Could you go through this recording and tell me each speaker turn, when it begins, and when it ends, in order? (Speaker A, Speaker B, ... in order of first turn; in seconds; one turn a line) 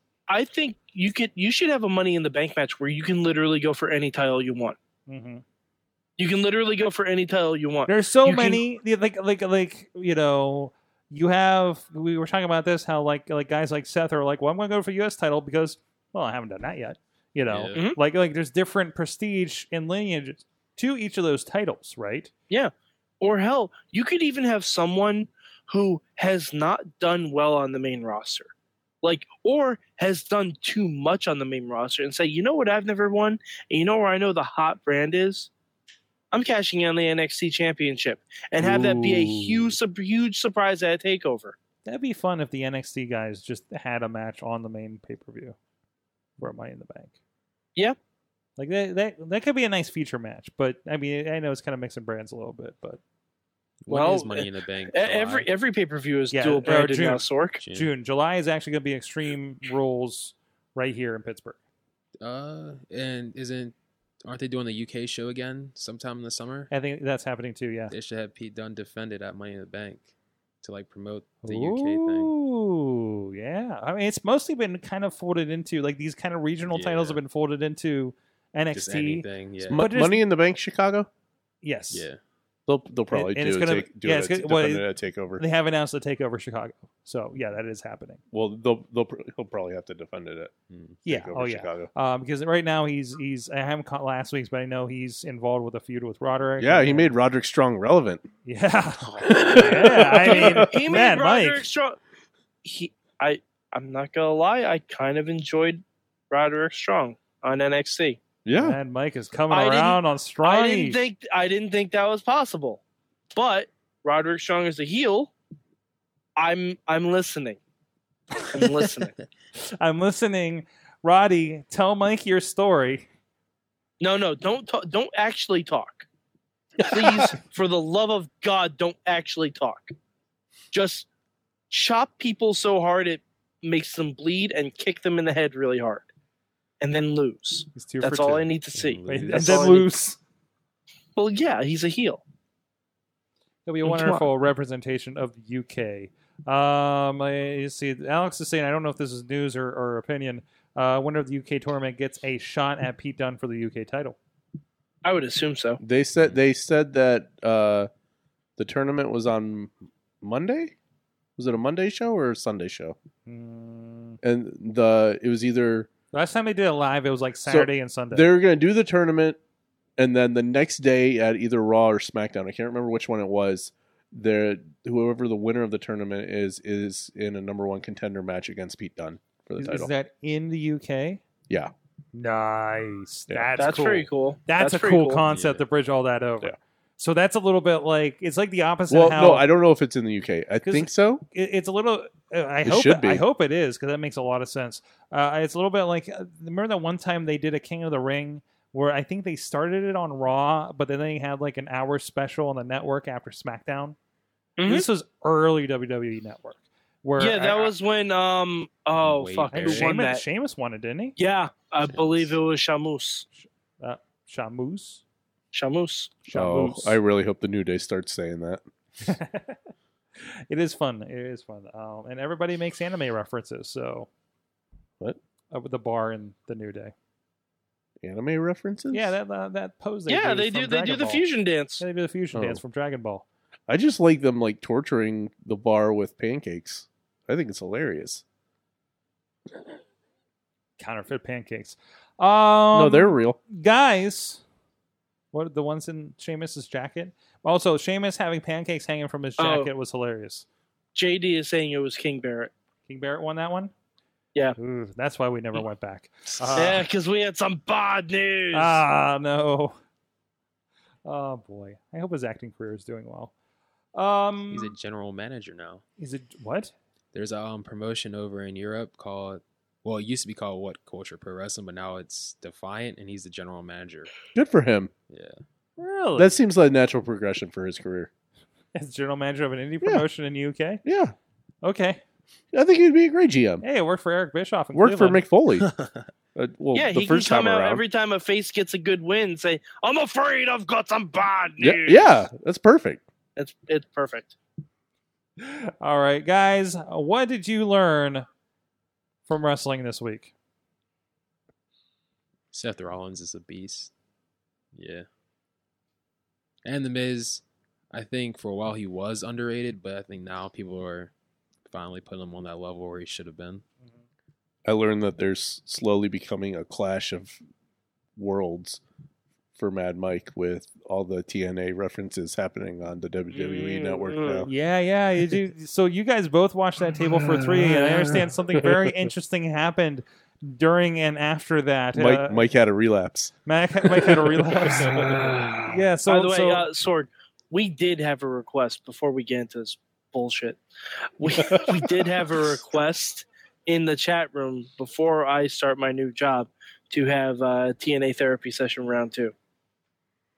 Speaker A: 0.3-4.8
Speaker B: 5.1-5.4
Speaker A: 6.2-8.6
Speaker B: 7.9-22.3
Speaker C: 17.5-17.8
Speaker A: 22.5-28.5
Speaker A: 29.0-35.5
Speaker A: 36.3-41.6
Speaker D: 38.6-39.7
Speaker B: 41.9-45.6
Speaker B: 46.4-47.1
Speaker B: 48.6-53.0
Speaker C: 53.8-55.5
Speaker A: 53.9-57.6
Speaker B: 56.3-61.6
Speaker C: 57.6-57.9
Speaker C: 62.2-66.7
Speaker B: 66.7-67.9
Speaker C: 67.9-70.1
Speaker C: 70.6-72.3
Speaker B: 71.4-80.2
Speaker C: 76.7-77.2
Speaker C: 78.7-79.8
Speaker D: 79.7-81.1
Speaker B: 81.6-82.1
Speaker C: 81.9-82.2
Speaker D: 82.7-85.4
Speaker B: 83.1-88.2
Speaker D: 88.3-90.5
Speaker C: 90.7-91.0
Speaker D: 91.0-91.9
Speaker B: 91.0-97.1
Speaker D: 96.6-98.2
Speaker B: 98.5-101.7
Speaker D: 99.2-100.8
Speaker A: 100.2-102.0
Speaker A: 102.6-108.2
Speaker D: 108.5-108.8
Speaker B: 108.6-111.0
Speaker A: 109.5-112.8
Speaker A: 113.3-115.3
Speaker A: 116.4-117.6
Speaker A: 118.5-119.2
Speaker B: 119.6-123.1
Speaker A: 124.0-126.1
Speaker D: 126.8-127.3
Speaker A: 126.8-129.9
Speaker A: 130.7-131.1
Speaker A: 131.7-136.1
Speaker A: 136.8-139.9
Speaker B: 137.8-138.5
Speaker C: 138.8-139.8
Speaker B: 139.1-140.2
Speaker A: 141.2-142.2
Speaker B: 143.7-154.2
Speaker A: 143.8-144.3
Speaker A: 155.0-155.8
Speaker D: 155.8-157.9
Speaker D: 158.6-160.7
Speaker D: 161.4-163.0
Speaker B: 163.3-164.2
Speaker D: 164.2-165.9
Speaker B: 166.1-168.3
Speaker D: 167.5-169.4
Speaker D: 170.0-179.9
Speaker B: 179.6-181.2
Speaker B: 182.1-189.5
Speaker A: 183.6-185.2
Speaker C: 185.3-185.7
Speaker D: 188.9-191.2
Speaker B: 190.6-204.0
Speaker D: 192.6-193.2
Speaker A: 204.6-204.9
Speaker B: 204.7-207.7
Speaker A: 207.2-210.2
Speaker C: 209.0-210.0
Speaker B: 209.5-211.2
Speaker A: 211.2-213.3
Speaker C: 211.9-212.4
Speaker B: 213.4-215.0
Speaker A: 215.5-216.2
Speaker B: 216.3-217.0
Speaker D: 216.3-218.6
Speaker B: 219.0-219.6
Speaker B: 220.5-224.1
Speaker B: 225.5-226.9
Speaker D: 228.0-229.2
Speaker B: 228.9-231.2
Speaker A: 230.1-231.8
Speaker B: 231.8-233.2
Speaker D: 232.3-232.6
Speaker D: 233.7-238.2
Speaker B: 240.8-244.4
Speaker D: 242.7-243.4
Speaker B: 245.3-250.4
Speaker A: 249.4-249.7
Speaker A: 250.9-252.5
Speaker B: 252.9-253.7
Speaker B: 254.6-256.9
Speaker A: 256.6-258.8
Speaker B: 258.5-259.8
Speaker B: 261.1-263.3
Speaker B: 263.9-264.7
Speaker C: 264.5-265.8
Speaker B: 266.0-266.7
Speaker C: 267.1-274.1
Speaker D: 274.4-274.9
Speaker C: 275.1-275.4
Speaker B: 275.8-276.4
Speaker D: 276.2-278.1
Speaker B: 278.8-280.8
Speaker D: 280.9-281.1
Speaker B: 281.6-282.0
Speaker D: 282.5-283.6
Speaker B: 283.6-285.2
Speaker D: 284.8-285.7
Speaker C: 285.6-286.0
Speaker D: 286.4-287.8
Speaker A: 286.7-292.3
Speaker D: 291.6-293.0
Speaker A: 293.4-294.4
Speaker B: 295.4-298.3
Speaker B: 299.3-300.3
Speaker C: 302.5-303.9
Speaker C: 304.7-305.1
Speaker C: 306.6-311.1
Speaker C: 311.7-313.6
Speaker D: 314.7-317.4
Speaker D: 318.2-318.8
Speaker D: 319.6-324.5
Speaker A: 323.3-324.5
Speaker B: 324.5-332.4
Speaker D: 331.9-335.4
Speaker B: 333.5-336.6
Speaker A: 335.0-340.6
Speaker A: 341.2-349.3
Speaker D: 341.3-342.1